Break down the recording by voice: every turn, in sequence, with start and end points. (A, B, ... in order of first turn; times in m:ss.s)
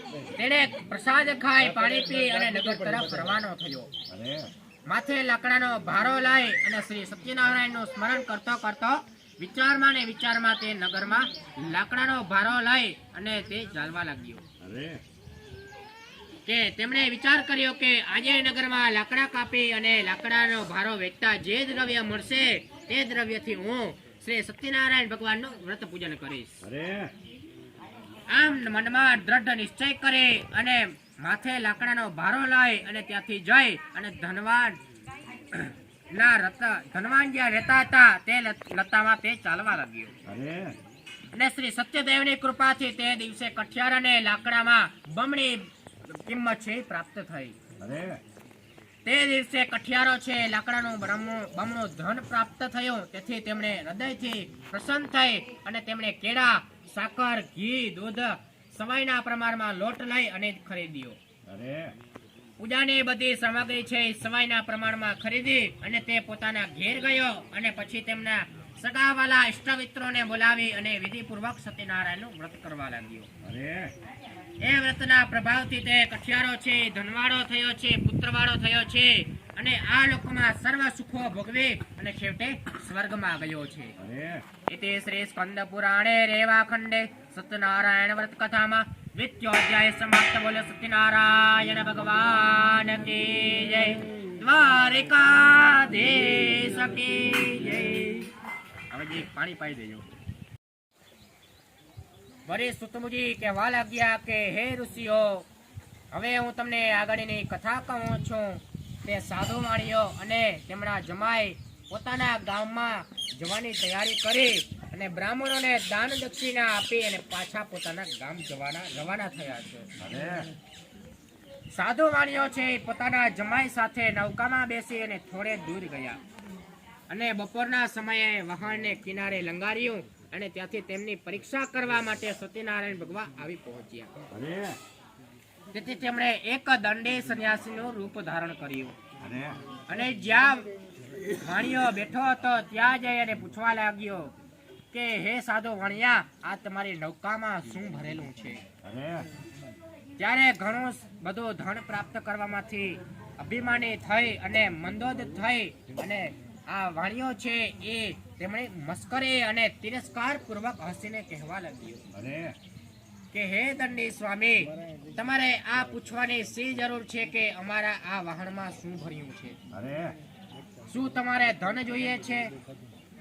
0:00.4-0:03.9 A
0:04.1-0:04.5 B
0:04.9-0:14.4 A
0:14.6-0:15.0 B
0:16.5-0:26.7 A
0:26.6-0:27.1 B
0:28.3-0:34.8 A
0:35.5-0:40.1 A
0:40.2-0:40.8 B
0:41.3-0:47.6 A
0:47.8-0:48.2 B
0:49.0-1:01.2 A
1:01.5-1:02.0 B
1:02.6-1:13.3 A
1:13.4-1:13.9 B
1:14.6-1:24.0 A
1:24.0-1:24.4 B
1:24.7-1:38.3 A
1:38.9-1:40.1 A
1:42.5-1:45.5 A
1:46.1-1:59.9 A
2:00.0-2:00.5 B
2:01.7-2:06.2 A
2:07.1-2:14.3 A
2:14.3-2:14.8 B
2:15.7-2:19.0 A
2:19.2-2:19.6 B
2:19.9-2:20.7 A
2:21.3-2:24.3 A
2:24.9-2:28.6 A
2:28.8-2:29.3 B
2:30.2-2:42.1 A
2:42.1-2:42.6 B
2:43.3-2:49.6 A
2:49.7-2:50.2 B
2:50.9-2:52.5 A